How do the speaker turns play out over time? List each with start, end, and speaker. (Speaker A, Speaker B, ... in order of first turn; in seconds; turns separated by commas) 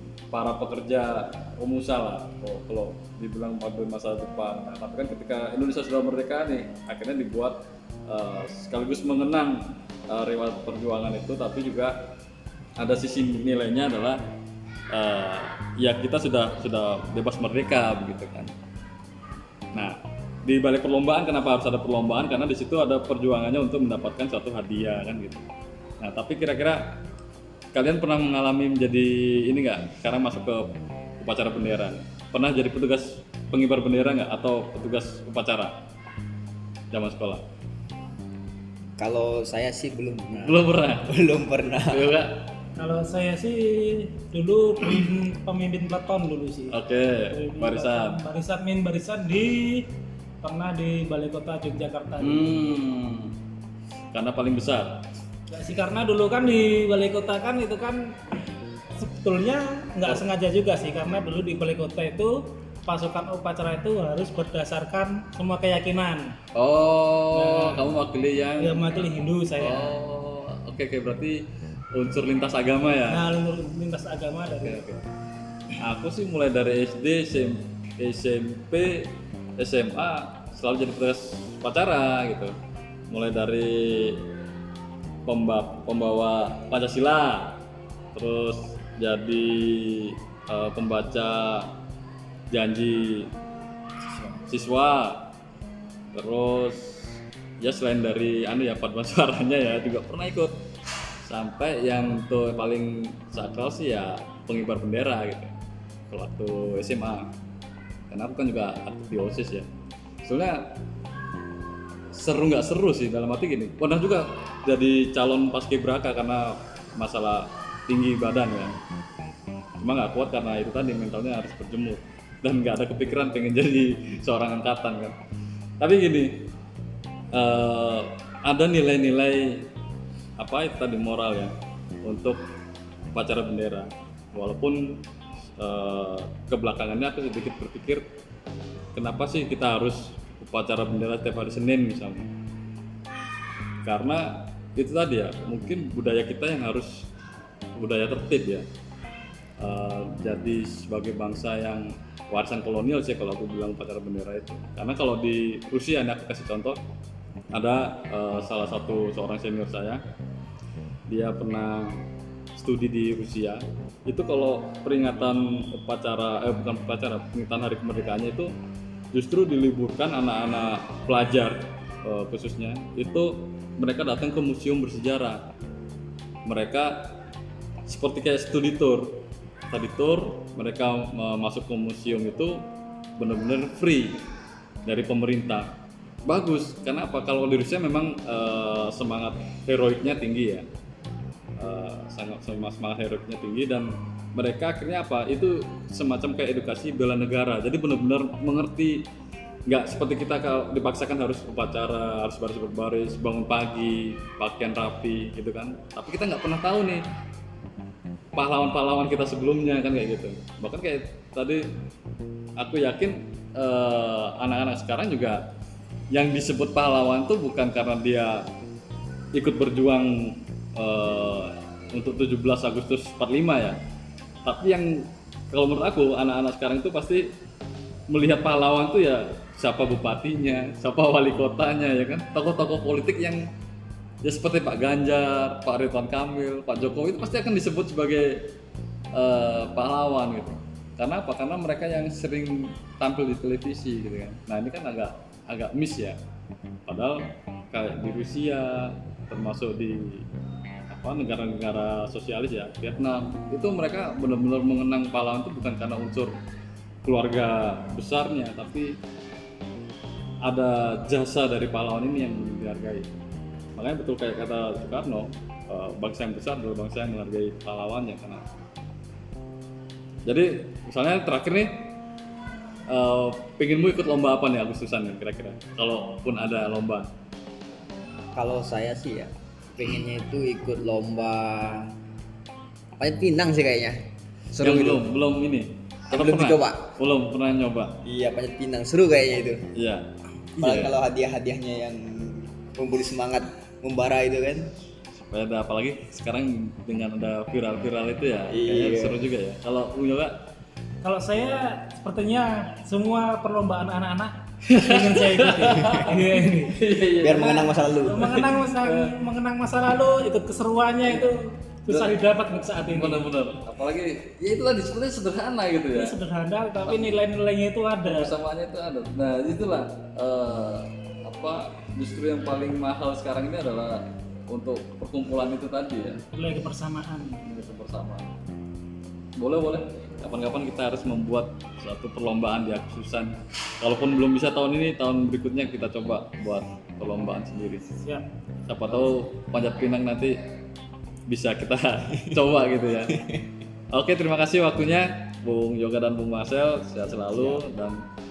Speaker A: 0.3-11.9, Speaker A: 12.8-14.2, Speaker A: 14.9-18.5, Speaker A: 19.7-25.4, Speaker A: 26.0-26.8, Speaker A: 27.7-30.7, Speaker A: 31.2-35.7, Speaker A: 36.9-37.4, Speaker B: 39.0-42.1, Speaker A: 40.4-41.1, Speaker A: 41.9-42.4, Speaker C: 42.8-49.9, Speaker A: 46.7-48.2, Speaker C: 50.4-52.8, Speaker A: 52.2-53.3, Speaker A: 54.1-55.0, Speaker C: 55.5-58.1, Speaker C: 59.0-66.3, Speaker A: 66.5-68.8, Speaker C: 67.3-67.9, Speaker C: 68.6-69.9, Speaker A: 69.6-71.4, Speaker A: 71.9-73.2, Speaker C: 73.0-74.8, Speaker A: 74.6-75.0, Speaker A: 75.8-82.5, Speaker A: 83.1-84.2, Speaker A: 85.2-87.6, Speaker A: 88.1-91.7, Speaker A: 92.5-93.3, Speaker B: 94.1-94.4, Speaker A: 94.5-95.3, Speaker A: 96.1-100.5, Speaker A: 101.2-105.5, Speaker A: 106.1-107.3, Speaker A: 108.1-109.7, Speaker A: 110.2-110.6, Speaker A: 112.1-118.8, Speaker A: 119.8-125.2, Speaker A: 125.8-126.4, Speaker A: 127.3-129.6, Speaker A: 130.4-132.4, Speaker A: 133.1-135.0, Speaker A: 135.6-138.0, Speaker A: 138.9-142.3, Speaker A: 143.8-147.1, Speaker A: 147.8-148.6, Speaker A: 149.6-156.8, Speaker A: 157.5-160.0, Speaker A: 161.1-161.9, Speaker A: 162.6-168.5, Speaker A: 169.1-175.4, Speaker A: 176.4-177.2, Speaker A: 177.9-182.6, Speaker A: 183.2-184.2, Speaker A: 184.8-185.7, Speaker A: 186.3-190.6, Speaker A: 191.6-199.0, Speaker A: 199.7-207.0, Speaker A: 208.3-211.6, Speaker A: 212.6-215.4, Speaker A: 216.1-218.4, Speaker A: 219.3-223.8, Speaker A: 224.4-227.3, Speaker A: 228.1-233.4, Speaker A: 234.2-238.4, Speaker A: 239.2-246.2, Speaker A: 246.9-250.2, Speaker A: 250.9-256.3, Speaker A: 257.0-258.9, Speaker A: 260.4-263.0, Speaker A: 263.8-268.4, Speaker A: 270.2-271.7, Speaker A: 272.9-277.1, Speaker B: 278.3-281.9, Speaker B: 283.0-284.0, Speaker B: 284.5-285.0, Speaker A: 284.6-287.9, Speaker B: 286.1-286.9, Speaker B: 288.0-289.6, Speaker A: 289.8-290.9, Speaker B: 290.6-294.7, Speaker A: 295.1-300.3, Speaker B: 298.5-299.2, Speaker C: 301.0-306.8, Speaker A: 304.7-309.1, Speaker B: 307.2-308.3, Speaker C: 308.1-313.3, Speaker A: 311.0-311.3, Speaker A: 311.9-312.1, Speaker A: 312.8-316.2, Speaker C: 315.9-318.3, Speaker A: 316.9-317.2, Speaker A: 318.0-326.2, Speaker C: 326.3-327.4, Speaker A: 327.4-328.3, Speaker A: 329.4-337.9, Speaker C: 337.9-338.2, Speaker A: 338.6-340.3, Speaker A: 341.3-343.2, Speaker A: 343.9-348.0, Speaker B: 347.3-347.6